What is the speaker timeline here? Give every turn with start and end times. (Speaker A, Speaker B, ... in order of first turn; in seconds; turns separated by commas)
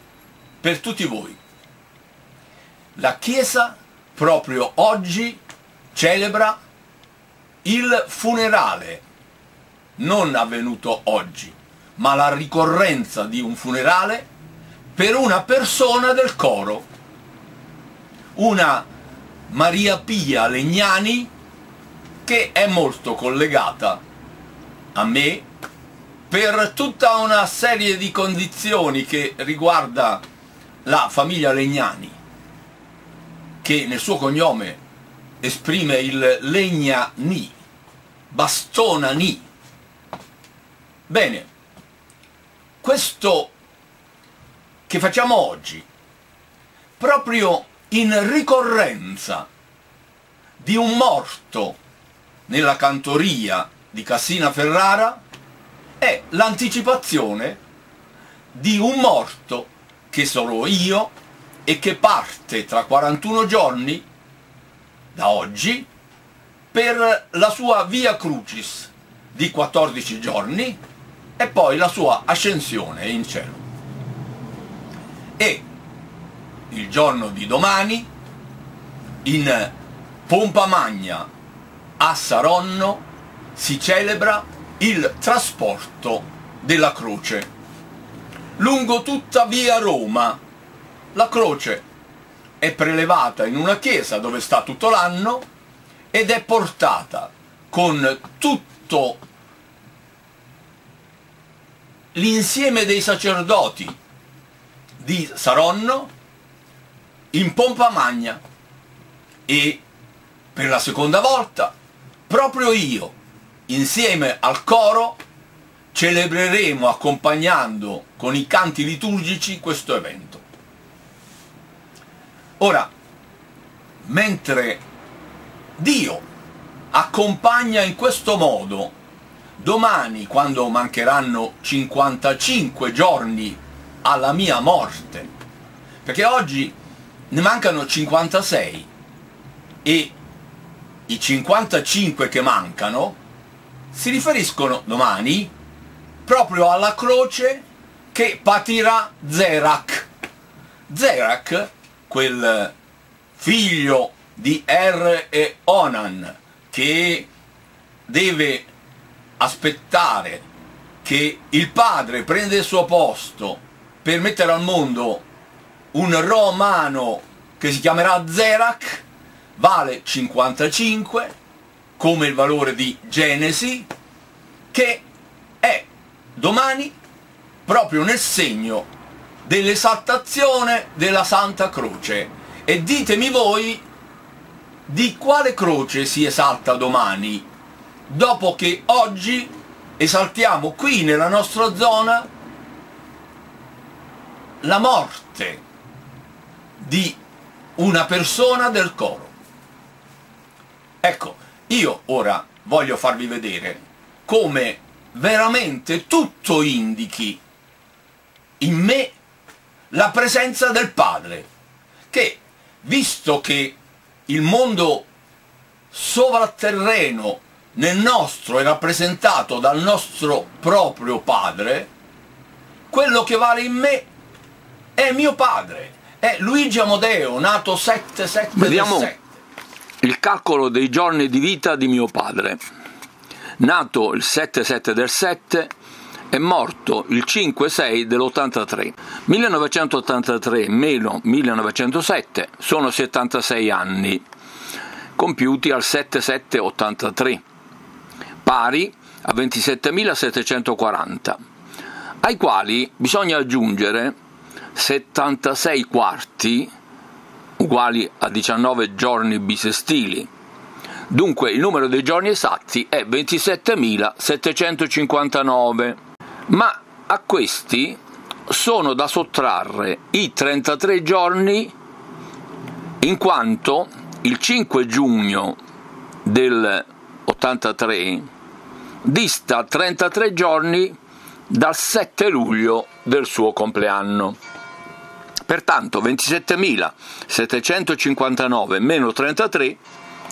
Speaker A: 0.6-1.4, Speaker A: 3.0-5.4, Speaker A: 5.9-6.6, Speaker A: 7.6-9.0, Speaker A: 10.0-14.3, Speaker A: 14.9-16.9, Speaker A: 18.3-18.9, Speaker A: 19.5-21.3, Speaker A: 22.2-24.0, Speaker A: 24.9-25.4, Speaker A: 26.3-30.2, Speaker A: 30.8-32.2, Speaker A: 33.6-34.8, Speaker A: 35.4-37.5, Speaker A: 38.3-39.5, Speaker A: 41.1-41.5, Speaker A: 42.8-43.5, Speaker A: 44.9-45.9, Speaker A: 47.0-49.5, Speaker A: 50.6-51.8, Speaker A: 52.5-55.2, Speaker A: 56.0-57.6, Speaker A: 58.5-61.1, Speaker A: 61.6-64.0, Speaker A: 65.1-65.9, Speaker A: 66.7-70.8, Speaker A: 71.4-73.6, Speaker A: 75.4-75.6, Speaker A: 76.7-78.1, Speaker A: 79.2-79.7, Speaker A: 80.3-81.3, Speaker A: 82.0-83.0, Speaker A: 83.5-87.5, Speaker A: 88.6-90.4, Speaker A: 91.1-91.8, Speaker A: 92.6-95.4, Speaker A: 96.1-99.2, Speaker A: 102.1-104.0, Speaker A: 105.0-106.1, Speaker A: 107.3-108.4, Speaker A: 109.5-109.8, Speaker A: 110.5-111.7, Speaker A: 112.3-113.1, Speaker A: 113.7-115.2, Speaker A: 115.9-120.4, Speaker A: 122.6-122.9, Speaker A: 124.0-124.8, Speaker A: 125.8-126.2, Speaker A: 126.9-128.9, Speaker A: 129.6-135.3, Speaker A: 136.0-136.7, Speaker A: 137.3-138.9, Speaker A: 139.8-140.1, Speaker A: 141.1-143.2, Speaker A: 143.9-145.5, Speaker A: 146.2-150.1, Speaker A: 150.9-152.7, Speaker A: 153.3-157.3, Speaker A: 158.1-158.7, Speaker A: 159.4-160.4, Speaker A: 161.0-165.2, Speaker A: 165.9-169.0, Speaker A: 169.6-171.3, Speaker A: 172.0-173.9, Speaker A: 174.7-175.0, Speaker A: 175.6-176.9, Speaker A: 177.7-178.9, Speaker A: 179.4-183.8, Speaker A: 184.9-187.4, Speaker A: 188.1-192.3, Speaker A: 194.6-195.6, Speaker A: 196.8-197.2, Speaker A: 197.8-199.3, Speaker A: 201.0-207.4, Speaker A: 208.6-209.2, Speaker A: 209.9-211.5, Speaker A: 212.1-213.8, Speaker A: 214.3-215.1, Speaker A: 215.9-221.9, Speaker A: 222.9-224.1, Speaker A: 225.0-229.2, Speaker B: 228.6-229.1, Speaker B: 230.0-232.6, Speaker B: 233.6-235.5, Speaker A: 235.3-235.6, Speaker A: 236.3-237.5, Speaker B: 236.4-236.9, Speaker B: 237.4-238.9, Speaker A: 238.3-241.4, Speaker B: 239.6-244.1, Speaker B: 245.4-247.2, Speaker A: 246.7-247.4, Speaker B: 248.4-251.3, Speaker B: 252.2-254.1, Speaker A: 254.8-255.1, Speaker B: 254.8-256.7, Speaker A: 256.1-256.4, Speaker B: 257.6-260.2, Speaker B: 261.1-265.9, Speaker B: 266.5-267.9, Speaker B: 268.5-271.7, Speaker B: 273.0-275.5, Speaker B: 276.3-276.7, Speaker B: 277.3-278.2, Speaker B: 279.1-280.9, Speaker B: 281.5-284.3, Speaker A: 282.7-283.2, Speaker B: 285.5-286.6, Speaker A: 285.5-287.9, Speaker B: 287.3-288.8, Speaker A: 288.8-289.7, Speaker B: 289.4-289.7